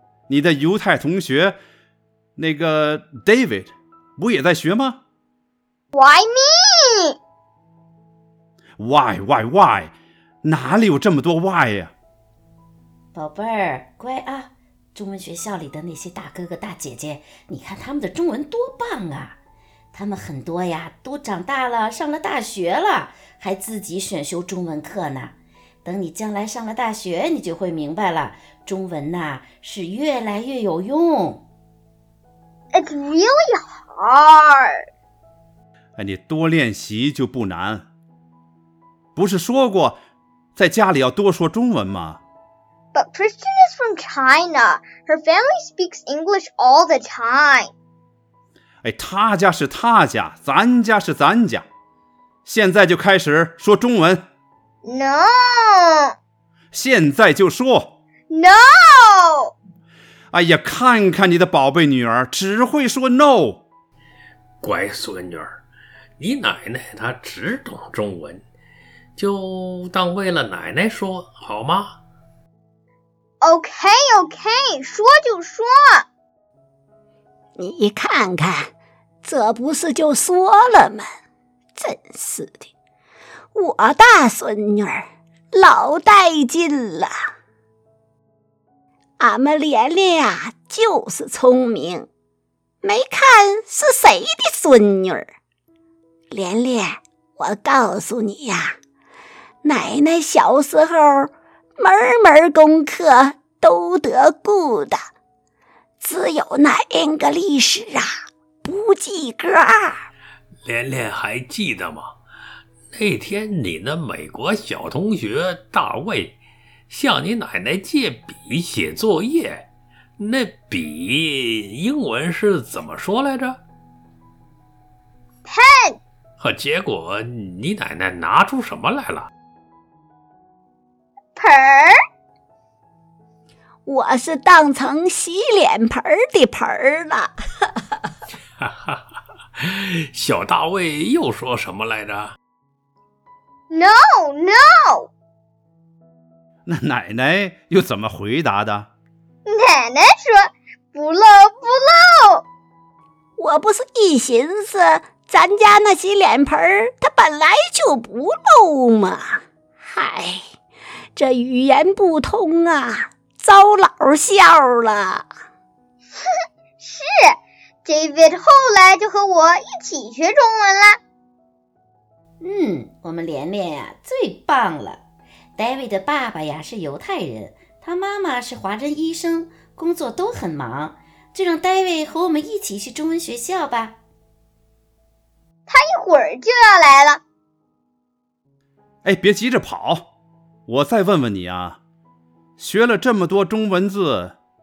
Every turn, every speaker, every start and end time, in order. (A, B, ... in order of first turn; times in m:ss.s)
0:00.3-0:01.6 A
0:02.4-0:05.0 A
0:05.9-0:07.2 B
0:08.8-0:09.9 A
0:10.4-0:11.9 A
0:13.1-0:19.4 C
0:19.9-0:31.4 C
0:32.7-0:34.8 B
0:36.0-0:37.9 A
0:39.2-0:40.0 A
0:40.6-0:42.2 A
0:42.9-0:47.7 B
0:48.8-0:51.7 A
0:52.4-0:54.2 A
0:54.8-0:56.2 B
0:56.7-0:58.0 A
0:58.3-0:59.5 B
1:00.3-1:03.6 A
1:04.6-1:05.6 D
1:06.2-1:08.4 D
1:09.2-1:12.0 D
1:13.4-1:16.0 B
1:17.6-1:18.7 E
1:19.2-1:21.1 E
1:21.8-1:22.7 E
1:23.6-1:27.1 E
1:29.2-1:32.1 E
1:32.8-1:35.3 E
1:36.3-1:38.8 E
1:39.6-1:45.0 E
1:46.0-1:48.1 E
1:48.6-1:50.0 E
1:50.6-1:52.1 D
1:52.9-1:56.4 D
1:56.9-1:59.7 D
2:00.2-2:03.6 D
2:05.5-2:06.0 B
2:06.4-2:09.3 D
2:11.4-2:12.0 B
2:13.9-2:17.3 E
2:18.6-2:19.0 D
2:19.6-2:22.4 D
2:23.7-2:25.1 B
2:26.7-2:28.9 A
2:29.5-2:32.4 B
2:33.4-2:40.4 E
2:41.2-2:45.2 E
2:46.2-2:51.0 B
2:52.4-2:55.0 C
2:55.6-3:04.0 C
3:05.7-3:07.2 B
3:09.0-3:10.1 A
3:10.7-3:11.8 A
3:12.6-3:14.4 A